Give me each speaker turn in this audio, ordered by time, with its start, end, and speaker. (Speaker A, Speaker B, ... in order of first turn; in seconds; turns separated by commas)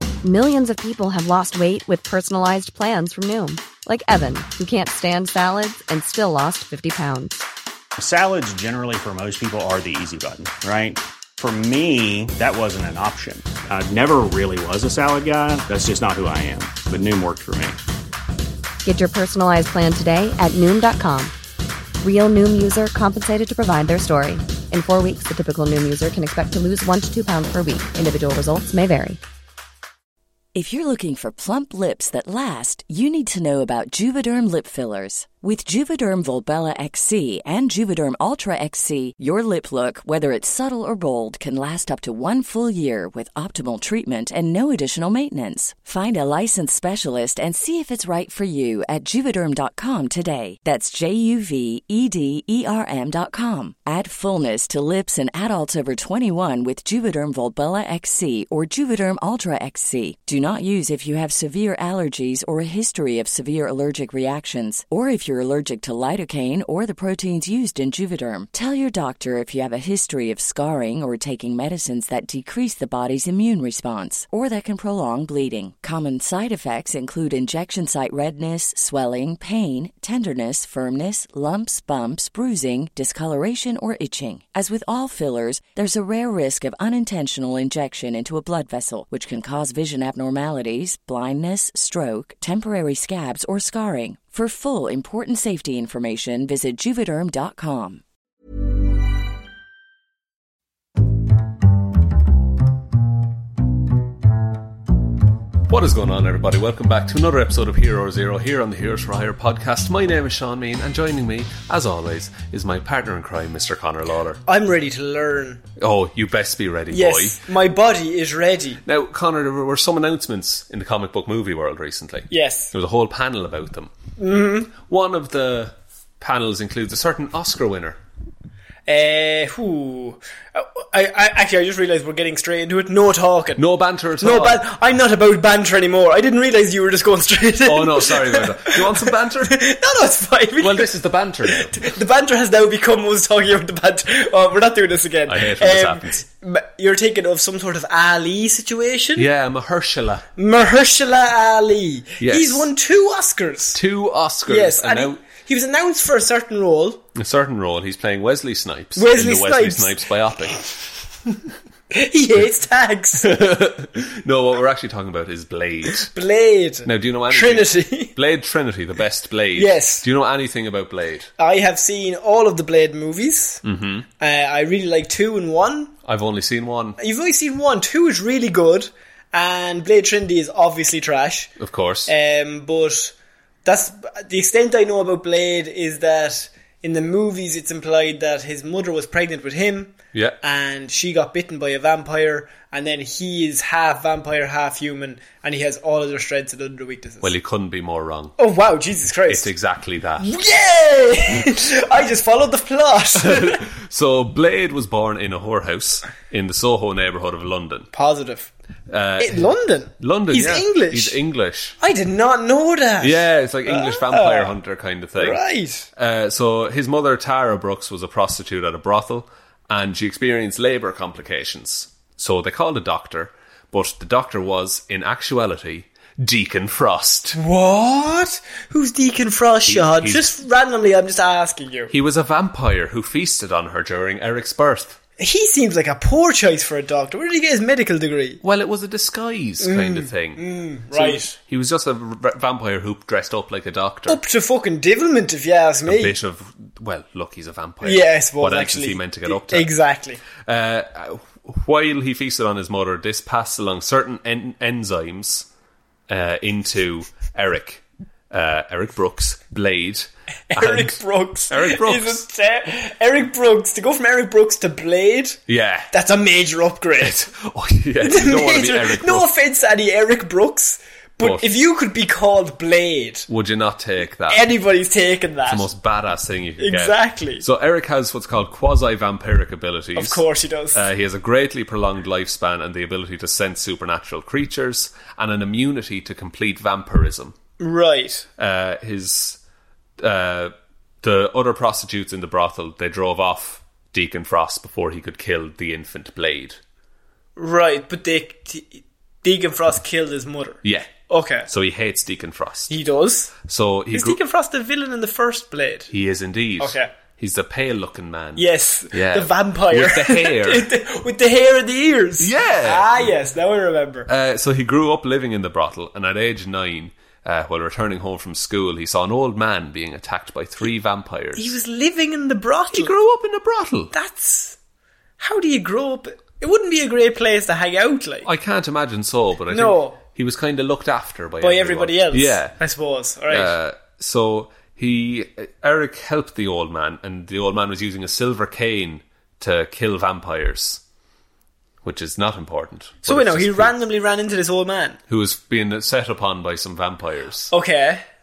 Speaker A: 0.2-7.4, Speaker B: 8.0-17.8, Speaker A: 18.8-21.3, Speaker A: 22.0-29.2, Speaker C: 30.5-98.0, Speaker D: 105.7-114.4, Speaker E: 114.5-115.6, Speaker D: 115.8-117.4, Speaker E: 116.9-118.8, Speaker D: 118.8-123.9, Speaker E: 122.3-122.7, Speaker E: 124.2-124.7, Speaker D: 124.8-128.0, Speaker E: 128.9-133.6, Speaker D: 133.6-134.6, Speaker E: 134.2-140.9, Speaker D: 137.6-139.5, Speaker D: 140.6-141.9, Speaker E: 141.4-149.3, Speaker D: 145.3-146.2, Speaker D: 149.2-150.3, Speaker E: 150.4-153.8, Speaker D: 152.2-152.7, Speaker D: 153.7-155.2, Speaker E: 154.5-157.0, Speaker D: 157.1-160.8, Speaker E: 158.9-159.9, Speaker E: 161.9-163.3, Speaker D: 163.2-166.1, Speaker E: 166.1-168.1, Speaker D: 166.8-171.3, Speaker E: 169.6-170.0, Speaker E: 171.4-173.6, Speaker D: 173.6-174.1, Speaker E: 174.2-175.9, Speaker D: 176.0-177.0, Speaker E: 177.0-181.5, Speaker D: 181.6-182.1, Speaker E: 182.1-183.1, Speaker E: 183.6-197.3, Speaker D: 197.2-198.3, Speaker E: 198.4-199.5, Speaker D: 199.3-200.3, Speaker E: 200.2-203.6, Speaker D: 203.2-207.9, Speaker E: 207.9-208.5, Speaker D: 208.9-211.8, Speaker E: 209.2-211.2, Speaker E: 211.8-214.5, Speaker D: 213.0-215.4, Speaker E: 215.2-215.9, Speaker D: 215.9-227.4, Speaker E: 227.3-231.9, Speaker D: 229.7-230.3, Speaker D: 231.9-235.0, Speaker E: 235.2-238.4, Speaker D: 238.4-244.2, Speaker E: 239.6-241.3, Speaker E: 244.1-246.1, Speaker D: 245.8-249.7, Speaker E: 247.8-250.2, Speaker D: 250.3-255.5, Speaker D: 256.1-262.2, Speaker E: 260.5-265.4, Speaker D: 265.5-265.9, Speaker E: 265.9-267.2, Speaker D: 267.0-269.3, Speaker E: 268.0-273.3, Speaker D: 271.2-271.6, Speaker D: 273.3-274.4, Speaker E: 274.3-275.7, Speaker D: 275.5-280.2, Speaker E: 276.6-277.4, Speaker E: 279.9-280.8, Speaker D: 280.7-287.4, Speaker E: 287.6-288.3, Speaker D: 288.4-289.4, Speaker D: 290.0-296.6, Speaker E: 297.4-301.5, Speaker D: 300.6-302.7, Speaker E: 302.7-303.3, Speaker D: 303.4-304.2, Speaker E: 303.9-305.9, Speaker D: 305.9-310.7, Speaker E: 306.6-306.9, Speaker E: 308.4-314.1, Speaker D: 312.2-313.1, Speaker D: 314.1-321.6, Speaker E: 321.4-322.9, Speaker D: 322.7-323.9, Speaker E: 323.9-324.6, Speaker E: 325.2-328.3, Speaker D: 328.2-332.6, Speaker E: 329.5-330.0, Speaker E: 331.4-333.5, Speaker D: 333.3-340.8, Speaker D: 341.8-343.7, Speaker E: 343.1-345.0, Speaker D: 345.1-347.5, Speaker E: 347.5-348.0